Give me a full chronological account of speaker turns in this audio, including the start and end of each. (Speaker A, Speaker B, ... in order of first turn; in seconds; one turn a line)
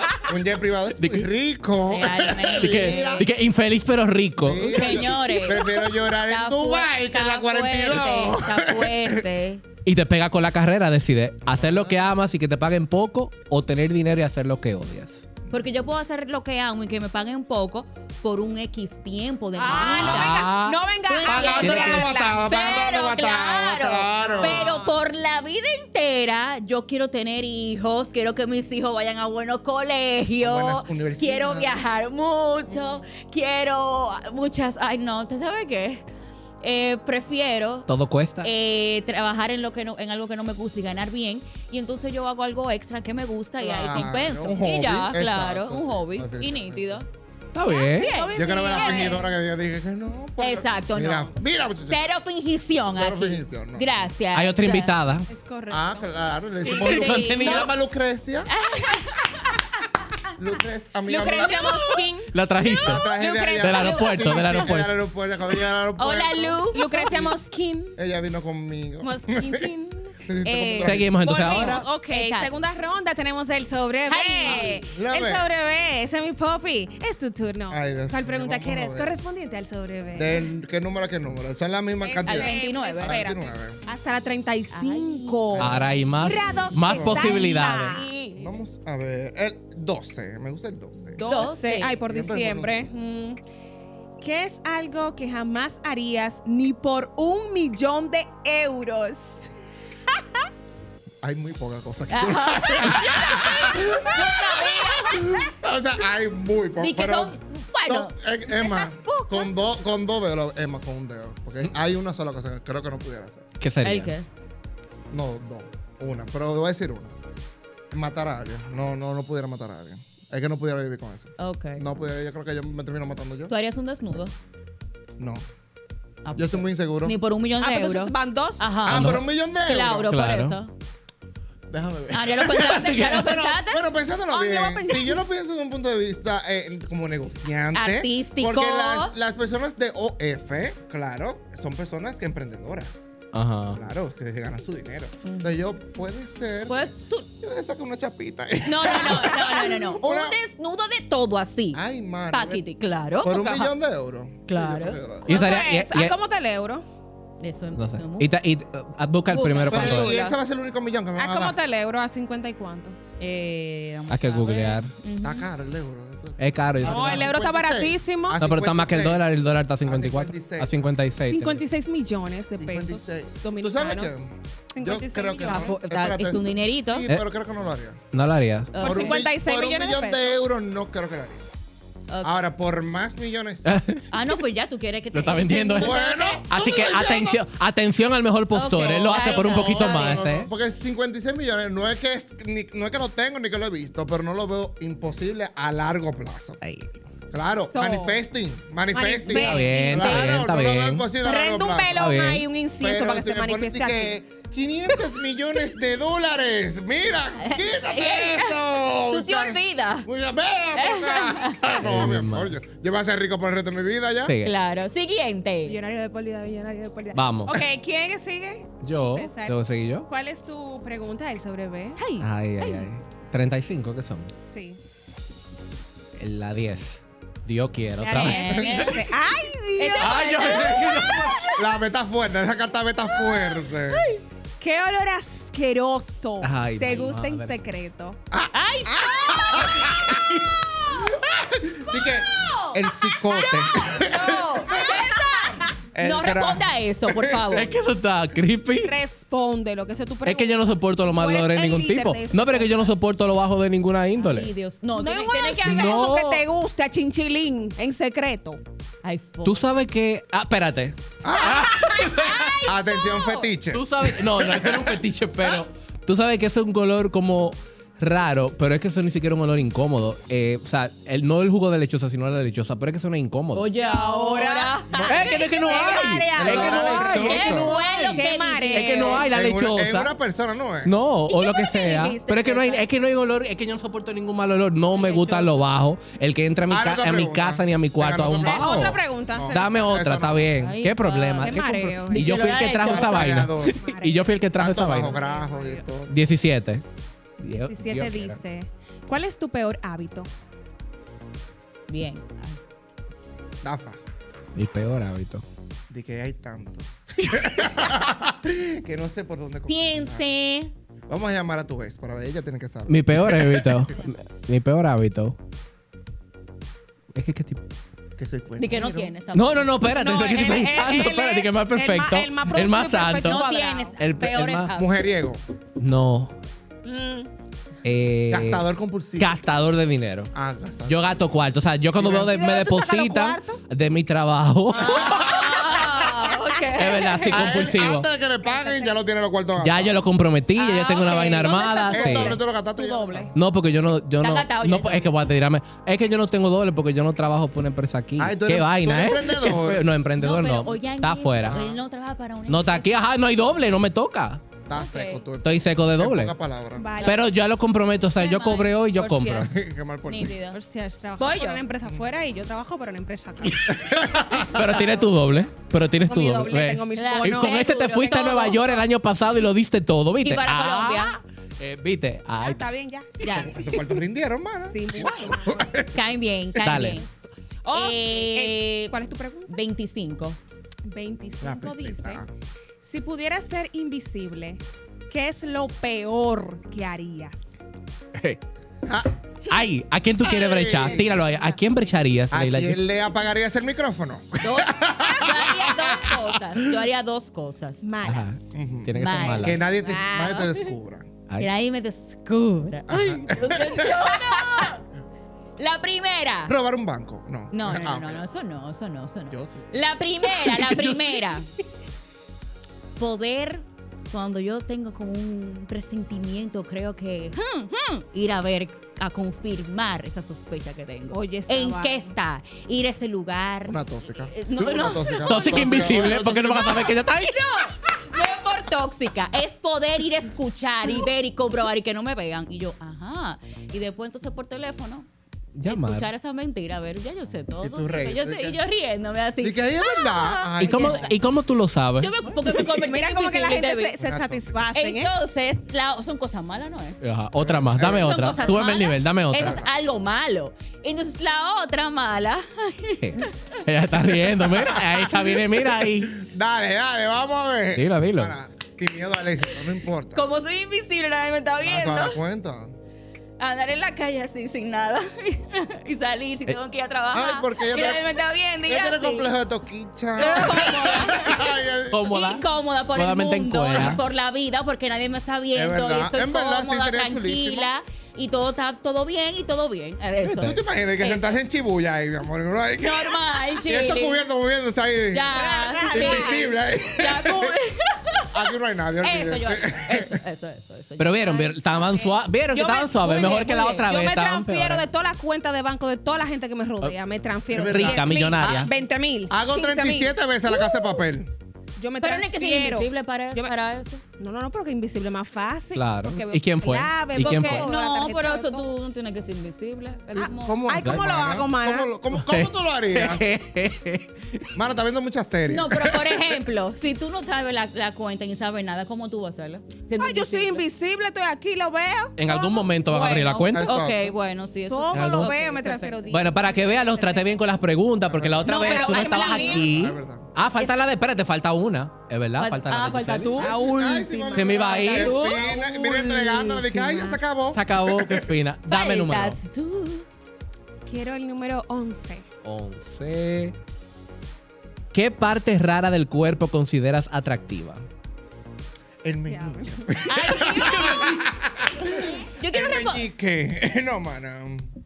Speaker A: 0.2-3.3
Speaker B: 1.0-1.3
Speaker C: 1.9-3.3
Speaker B: 2.5-5.1
Speaker A: 4.4-9.2
Speaker C: 4.7-9.6
Speaker B: 9.8-15.3
Speaker A: 11.5-12.1
Speaker C: 15.5-36.0
Speaker D: 19.5-22.5
Speaker A: 19.7-20.2
Speaker B: 19.8-22.1
Speaker A: 21.2-24.7
Speaker D: 24.2-25.0
Speaker A: 30.4-31.8
Speaker C: 36.6-37.9
Speaker B: 37.9-38.5
Speaker C: 38.4-47.0
Speaker A: 43.6-47.0
Speaker B: 47.5-48.1
Speaker C: 47.6-49.2
Speaker D: 48.0-49.2
Speaker A: 48.3-52.1
Speaker C: 50.4-51.3
Speaker C: 51.9-55.0
Speaker A: 52.9-54.0
Speaker B: 54.3-55.3
Speaker D: 55.3-56.1
Speaker A: 55.7-58.5
Speaker B: 56.7-57.7
Speaker C: 56.7-57.7
Speaker C: 58.5-59.6
Speaker A: 60.4-61.8
Speaker D: 61.1-62.3
Speaker C: 61.3-62.0
Speaker B: 62.3-64.9
Speaker C: 62.6-64.5
Speaker A: 62.8-67.3
Speaker D: 63.1-64.2
Speaker C: 66.0-67.2
Speaker D: 66.7-68.0
Speaker A: 68.0-69.7
Speaker D: 69.0-70.2
Speaker A: 70.2-71.6
Speaker C: 70.4-72.5
Speaker B: 70.8-71.8
Speaker D: 71.2-80.4
Speaker C: 74.1-74.8
Speaker A: 74.4-75.5
Speaker A: 77.7-79.1
Speaker A: 80.1-83.8
Speaker D: 82.0-88.1
Speaker C: 82.2-83.2
Speaker C: 84.7-88.5
Speaker A: 85.5-85.9
Speaker B: 85.6-88.0
Speaker A: 86.8-87.4
Speaker A: 88.3-91.2
Speaker D: 91.1-93.4
Speaker C: 91.2-92.0
Speaker A: 92.1-92.9
Speaker D: 94.2-99.4
Speaker D: 100.1-100.4
Speaker A: 101.2-113.4
Speaker C: 102.1-105.3
Speaker C: 106.8-108.1
Speaker D: 108.5-109.4
Speaker B: 113.6-114.1
Speaker C: 113.8-114.2
Speaker A: 115.1-117.1
Speaker A: 117.9-123.5
Speaker C: 121.4-121.8
Speaker C: 123.5-124.3
Speaker A: 125.2-125.4
Speaker C: 126.2-130.7
Speaker A: 126.3-127.2
Speaker D: 127.6-128.7
Speaker A: 128.8-130.1
Speaker B: 128.9-129.2
Speaker B: 130.1-130.6
Speaker A: 131.7-143.1
Speaker C: 132.1-133.8
Speaker B: 132.5-133.4
Speaker D: 134.3-135.2
Speaker C: 137.7-139.1
Speaker B: 143.3-143.8
Speaker A: 143.7-150.4
Speaker C: 145.2-145.6
Speaker C: 146.7-147.3
Speaker C: 148.6-153.7
Speaker A: 151.7-152.6
Speaker A: 153.2-155.4
Speaker C: 154.5-155.0
Speaker B: 155.2-156.1
Speaker D: 155.2-156.8
Speaker C: 157.4-158.3
Speaker B: 157.7-160.1
Speaker C: 159.3-160.4
Speaker A: 159.7-161.6
Speaker D: 161.2-163.0
Speaker C: 163.2-165.5
Speaker B: 164.1-164.9
Speaker A: 165.2-169.3
Speaker B: 166.4-167.3
Speaker D: 166.8-168.4
Speaker B: 168.4-171.6
Speaker A: 169.8-170.8
Speaker D: 171.3-174.1
Speaker A: 172.6-178.0
Speaker D: 174.7-175.8
Speaker C: 175.4-177.1
Speaker B: 178.1-178.7
Speaker C: 178.7-179.2
Speaker A: 178.8-181.5
Speaker D: 178.8-180.4
Speaker C: 182.1-182.4
Speaker A: 182.2-183.8
Speaker B: 183.6-184.1
Speaker C: 184.1-186.6
Speaker B: 185.1-190.5
Speaker A: 185.8-187.4
Speaker C: 188.5-190.3
Speaker A: 188.8-196.6
Speaker B: 196.6-196.9
Speaker A: 197.3-202.1
Speaker D: 197.7-198.2
Speaker D: 198.9-200.3
Speaker B: 199.3-201.1
Speaker D: 201.2-204.2
Speaker B: 201.9-202.5
Speaker A: 202.8-214.3
Speaker C: 207.4-210.1
Speaker C: 210.7-211.8
Speaker B: 211.8-212.5
Speaker B: 214.2-214.5
Speaker C: 214.4-215.8
Speaker D: 215.7-222.0
Speaker B: 217.1-217.6
Speaker B: 218.8-220.1
Speaker C: 222.0-222.8
Speaker B: 222.2-224.3
Speaker D: 224.4-224.8
Speaker B: 226.2-228.9
Speaker D: 228.0-231.5
Speaker C: 228.1-229.0
Speaker C: 229.8-231.6
Speaker B: 230.0-231.5
Speaker A: 231.6-234.1
Speaker D: 233.2-233.6
Speaker D: 234.6-238.2
Speaker B: 236.4-237.5
Speaker A: 238.3-240.4
Speaker C: 238.5-241.2
Speaker A: 240.9-244.9
Speaker C: 241.9-247.8
Speaker D: 244.2-245.7
Speaker A: 245.9-247.4
Speaker B: 247.5-248.9
Speaker D: 248.8-252.9
Speaker B: 250.2-254.5
Speaker C: 254.2-256.1
Speaker D: 255.0-258.6
Speaker B: 255.6-256.4
Speaker C: 259.0-259.6
Speaker B: 259.4-262.6
Speaker A: 261.2-261.9
Speaker C: 261.3-263.5
Speaker A: 262.6-265.0
Speaker B: 263.7-273.7
Speaker C: 273.5-275.9
Speaker D: 273.8-279.3
Speaker B: 275.0-278.2
Speaker A: 276.3-277.8
Speaker C: 276.5-279.3
Speaker B: 278.7-280.1
Speaker A: 279.3-280.9
Speaker B: 280.8-295.2
Speaker C: 281.3-282.8
Speaker C: 284.9-285.6
Speaker A: 286.7-290.5
Speaker D: 288.3-289.9
Speaker C: 290.6-293.4
Speaker D: 291.4-292.5
Speaker A: 292.7-293.8
Speaker D: 293.4-294.3
Speaker A: 294.6-296.2
Speaker D: 294.9-295.8
Speaker B: 296.1-296.8
Speaker B: 297.4-298.4
Speaker D: 297.5-300.3
Speaker C: 301.9-302.6
Speaker A: 303.6-304.1
Speaker B: 304.6-305.4
Speaker A: 305.9-310.2
Speaker C: 309.7-310.7
Speaker A: 311.1-313.9
Speaker B: 312.9-315.4
Speaker B: 317.1-317.6
Speaker A: 318.2-319.1
Speaker C: 318.6-319.8
Speaker B: 319.3-323.4
Speaker D: 319.9-323.9
Speaker C: 323.2-325.0
Speaker B: 324.0-324.7
Speaker A: 324.7-325.4
Speaker B: 325.8-326.3
Speaker D: 326.8-327.3
Speaker B: 327.8-328.6
Speaker A: 328.3-329.3
Speaker B: 329.2-330.3
Speaker A: 330.3-331.1
Speaker B: 330.9-335.3
Speaker A: 332.0-332.3
Speaker D: 332.1-333.6
Speaker D: 334.7-335.5
Speaker C: 334.7-337.7
Speaker A: 335.1-335.8
Speaker B: 336.7-338.1
Speaker A: 337.3-340.0
Speaker D: 338.4-338.9
Speaker B: 339.6-342.4
Speaker C: 340.6-342.3
Speaker D: 341.4-343.3
Speaker A: 341.9-343.3
Speaker B: 343.3-351.6
Speaker C: 344.2-345.1
Speaker A: 348.2-349.9
Speaker C: 350.2-353.0
Speaker A: 351.4-351.8
Speaker B: 352.5-354.4
Speaker A: 354.6-356.9
Speaker C: 354.7-355.2
Speaker B: 355.4-356.3
Speaker D: 356.8-357.3
Speaker B: 357.0-359.5
Speaker C: 358.1-359.5
Speaker A: 359.4-360.4
Speaker C: 360.1-360.6
Speaker D: 360.5-365.1
Speaker C: 361.2-361.6
Speaker B: 363.4-372.7
Speaker A: 363.7-364.8
Speaker D: 366.0-368.9
Speaker C: 366.9-368.6
Speaker C: 370.2-371.2
Speaker D: 372.4-373.6
Speaker C: 373.2-373.5
Speaker A: 373.4-376.0
Speaker D: 374.7-375.8
Speaker C: 375.9-377.1
Speaker A: 376.5-376.8
Speaker B: 376.6-377.0
Speaker D: 377.6-379.6
Speaker C: 377.7-378.9
Speaker C: 379.5-380.4
Speaker D: 380.9-382.2
Speaker A: 381.4-382.3
Speaker D: 382.8-387.4
Speaker B: 389.5-392.8
Speaker A: 390.2-391.1
Speaker D: 390.8-391.5
Speaker A: 392.3-396.8
Speaker C: 394.4-397.9
Speaker D: 397.8-398.3
Speaker B: 398.0-399.6
Speaker A: 398.5-401.1
Speaker C: 398.9-399.6
Speaker D: 399.1-400.7
Speaker C: 401.4-404.8
Speaker A: 402.9-404.4
Speaker C: 405.6-406.5
Speaker A: 406.4-408.2
Speaker C: 407.5-411.5
Speaker A: 409.3-409.7
Speaker B: 410.4-411.3
Speaker C: 413.0-435.1
Speaker D: 421.1-422.0
Speaker A: 423.6-426.9
Speaker B: 425.2-427.4
Speaker B: 435.5-436.1
Speaker C: 435.6-441.0
Speaker A: 437.6-438.6
Speaker A: 439.4-441.2
Speaker B: 440.6-442.1
Speaker C: 442.0-443.9
Speaker D: 442.5-445.1
Speaker A: 444.0-444.7
Speaker C: 444.7-447.0
Speaker B: 447.0-449.6
Speaker A: 447.4-448.5
Speaker C: 447.8-453.6
Speaker A: 449.4-449.7
Speaker B: 453.0-456.2
Speaker A: 455.8-460.2
Speaker B: 457.7-458.3
Speaker C: 460.1-462.2
Speaker A: 461.6-462.7
Speaker C: 463.4-469.3
Speaker A: 467.1-468.1
Speaker A: 468.6-472.0
Speaker C: 470.1-481.4
Speaker B: 470.3-470.8
Speaker B: 471.9-474.0
Speaker A: 475.5-477.7
Speaker B: 480.2-480.6
Speaker A: 480.4-485.3
Speaker C: 482.8-484.3
Speaker C: 485.1-488.5
Speaker D: 485.3-486.6
Speaker A: 485.9-487.6
Speaker A: 488.3-490.2
Speaker C: 489.0-491.5
Speaker B: 491.0-494.8
Speaker D: 491.7-500.9
Speaker C: 492.9-493.9
Speaker A: 497.5-498.7
Speaker B: 497.5-498.7
Speaker A: 499.3-501.3
Speaker D: 501.8-503.5
Speaker C: 502.0-504.0
Speaker D: 504.2-508.6
Speaker B: 505.7-507.7
Speaker C: 507.2-510.6
Speaker A: 510.1-513.3
Speaker D: 510.2-511.9
Speaker B: 510.8-511.1
Speaker B: 512.1-514.5
Speaker A: 514.5-516.2
Speaker C: 515.5-520.6
Speaker D: 520.0-522.7
Speaker B: 522.2-523.8
Speaker C: 522.9-526.0
Speaker A: 523.5-524.1
Speaker D: 524.7-527.3
Speaker B: 524.9-525.4
Speaker B: 526.1-533.6
Speaker A: 528.1-528.6
Speaker C: 528.5-529.7
Speaker D: 528.5-529.8
Speaker A: 529.6-530.3
Speaker C: 532.4-533.5
Speaker D: 533.4-537.2
Speaker A: 533.5-538.3
Speaker B: 534.3-535.3
Speaker C: 534.9-535.5
Speaker B: 537.5-539.4
Speaker C: 538.7-540.0
Speaker D: 540.8-542.2
Speaker B: 542.4-543.5
Speaker B: 544.9-547.8
Speaker A: 549.0-554.7
Speaker D: 549.3-549.9
Speaker C: 550.0-551.2
Speaker C: 551.8-553.1